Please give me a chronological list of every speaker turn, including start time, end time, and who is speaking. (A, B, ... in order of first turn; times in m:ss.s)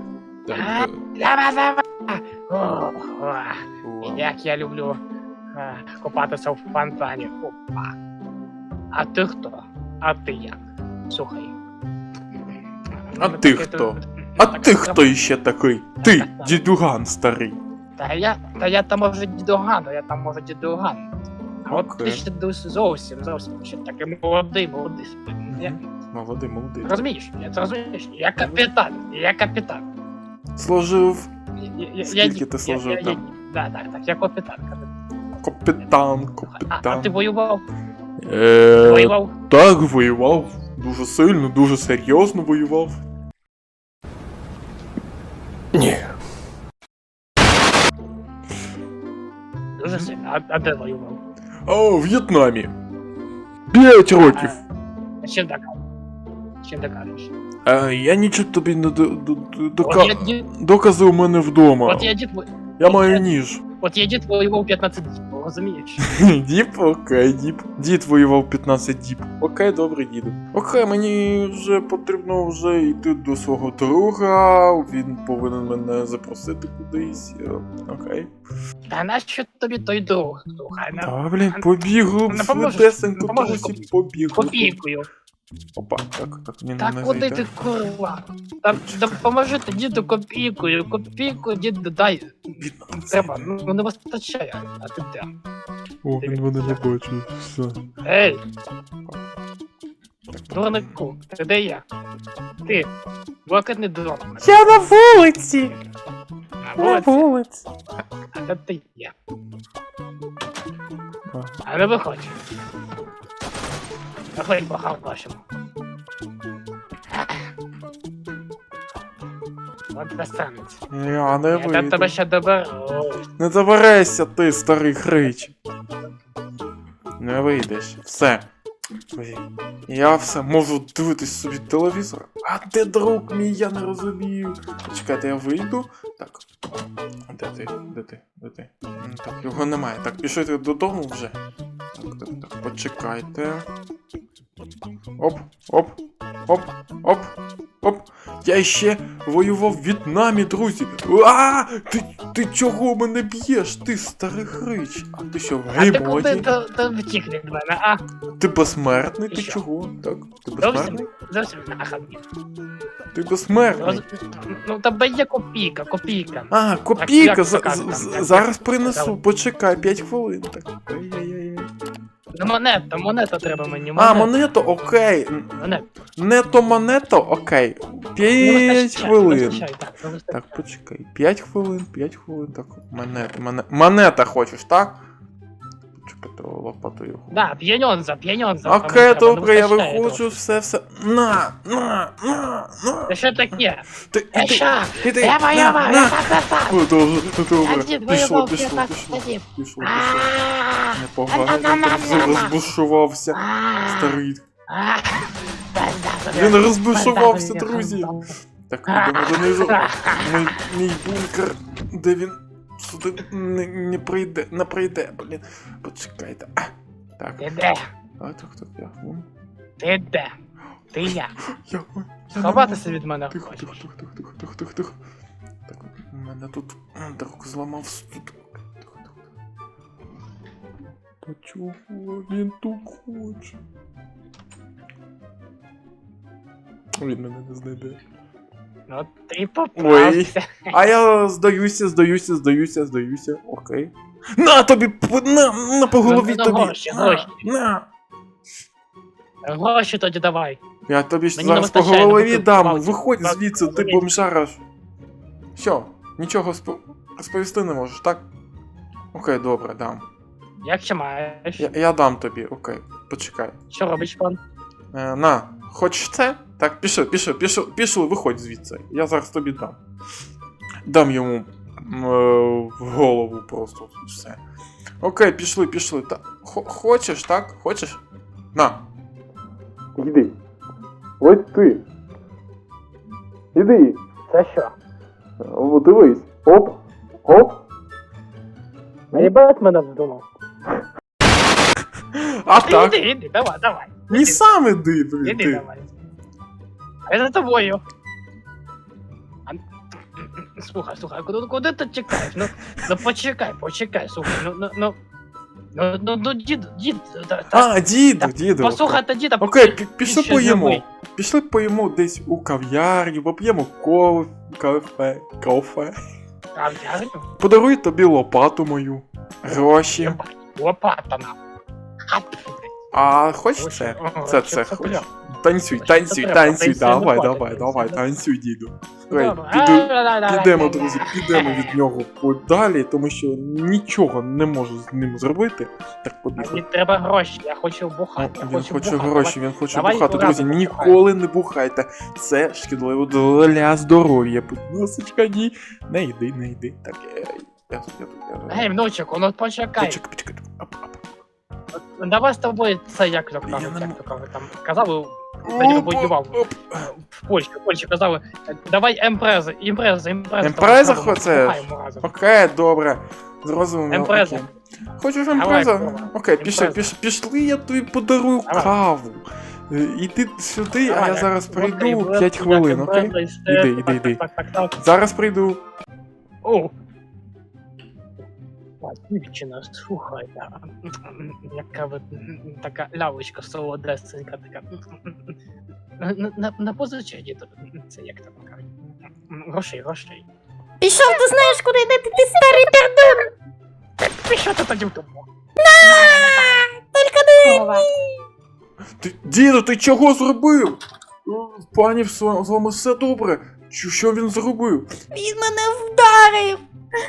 0:00.5-0:01.0 A
0:00.5-0:05.0 B
0:03.8-0:04.3 A
0:05.5-0:08.0 B
0:08.9-0:11.6 B
0:12.4-0:15.1 B
0:13.2-0:17.6 A
0:16.0-0:16.6 B
0:18.0-0:21.1 B
0:21.6-0:25.8 B
0:21.7-0:22.2 A
0:25.5-0:27.0 A
0:26.8-0:29.8 B
0:28.4-0:28.7 A
0:30.6-0:31.3 A
0:31.6-0:34.9 B
0:32.0-0:33.2 A
0:35.4-0:37.1 A
0:36.5-0:37.6 B
0:38.2-0:43.0 A
0:38.8-0:39.3 B
0:45.7-0:46.1 A
0:49.8-0:51.2 B
0:49.8-0:50.1 A
0:51.7-0:52.7 A
0:53.7-0:54.6 A
0:54.2-0:54.6 B
0:55.2-0:55.8 B
0:56.6-0:57.3 B
0:57.7-1:02.1 A
0:59.8-1:00.5 B
1:01.9-1:03.3 B
1:02.8-1:03.6 A
1:03.8-1:06.0 B
1:06.0-1:18.3 A
1:18.9-1:21.7 B
1:21.0-1:24.8 A
1:22.3-1:23.8 B
1:24.3-1:25.1 B
1:25.8-1:27.5 A
1:26.8-1:35.3 B
1:28.7-1:29.2 A
1:32.6-1:33.5 A
1:36.0-1:37.8 A
1:36.2-1:36.8 B
1:38.0-1:38.4 B
1:40.3-1:41.0 A
1:40.5-1:41.8 B
1:42.6-1:42.9 B
1:43.5-1:44.6 B
1:44.4-1:45.8 A
1:46.6-1:47.3 B
1:46.8-1:47.6 A
1:48.3-1:49.1 B
1:51.6-1:52.4 B
1:54.4-1:55.4 B
1:57.1-1:57.5 B
1:59.9-2:00.8 B
2:00.9-2:02.1 A
2:01.5-2:03.3 B
2:03.4-2:05.5 A
2:05.2-2:06.2 B
2:07.2-2:08.5 A
2:09.1-2:21.4 A
2:21.9-2:23.7 A
2:25.2-2:26.0 A
2:26.5-2:36.5 A
2:35.7-2:38.0 B
2:38.4-2:41.1 A
2:39.3-2:39.6 B
2:40.6-2:42.2 B
2:43.1-2:44.0 A
2:43.8-2:49.2 B
2:46.5-2:51.7 A
2:52.3-2:54.3 B
2:54.0-2:55.6 A
2:55.6-2:55.9 B
2:56.2-2:59.7 A
2:58.2-3:00.6 B
3:00.3-3:05.0 A
3:06.0-3:07.4 A
3:07.3-3:10.4 B
3:08.6-3:13.2 A
3:13.1-3:16.8 B
3:14.1-3:20.3 A
3:17.6-3:22.5 B
3:20.9-3:24.4 A
3:23.3-3:28.3 B
3:26.3-3:28.1 A
3:28.7-3:37.5 A
3:28.9-3:30.6 B
3:37.4-3:37.9 B
3:38.2-3:39.3 A
3:39.8-3:40.3 B
3:40.9-3:41.4 B
3:41.5-3:45.0 A
3:42.4-3:43.9 B
3:45.7-3:49.2 A
3:51.2-3:53.6 A
3:57.0-3:58.0 A
3:58.9-4:00.7 B
3:59.8-4:07.9 A
4:06.0-4:07.4 B
4:09.4-4:10.6 B
4:10.9-4:14.6 A
4:11.4-4:14.1 B
4:15.6-4:18.2 A
4:19.1-4:20.0 A
4:20.6-4:21.7 B
4:21.6-4:23.6 A
4:23.7-4:24.4 B
4:24.9-4:29.8 A
4:30.9-4:34.4 A
4:35.0-4:38.0 A
4:38.6-4:38.8 A
4:40.0-4:40.3 A
4:41.2-4:41.8 A
4:43.5-4:44.0 A
4:44.3-4:44.8 B
4:45.4-4:47.6 A
4:49.1-4:50.2 B
4:52.1-4:53.0 A
4:52.6-4:54.4 B
4:54.1-4:55.6 A
4:55.2-4:55.9 B
4:57.1-4:57.8 B
5:00.2-5:05.0 B
5:05.7-5:10.8 B
5:07.5-5:16.0 A
5:16.6-5:17.3 B
5:17.4-5:20.2 A
5:19.5-5:21.4 B
5:22.1-5:22.8 B
5:22.9-5:36.6 A
5:23.6-5:25.1 B
5:25.7-5:28.0 B
5:29.1-5:31.8 B
5:36.4-5:41.0 B
5:38.2-5:48.7 A
5:48.5-5:50.0 B
5:49.8-5:51.0 A
5:51.8-6:02.1 B
5:53.4-5:54.0 A
5:55.4-5:56.9 A
6:00.4-6:14.2 A
6:03.9-6:04.5 B
6:05.3-6:06.9 B
6:08.5-6:08.8 B
6:10.8-6:14.8 B
6:14.8-6:15.6 A
6:16.4-6:16.7 B
6:18.8-6:25.4 B
6:26.0-6:28.7 B
6:29.3-6:30.3 B
6:30.8-6:33.3 C
6:34.0-6:35.3 B
6:35.6-6:38.0 C
6:39.0-6:44.9 A
6:45.1-6:46.6 C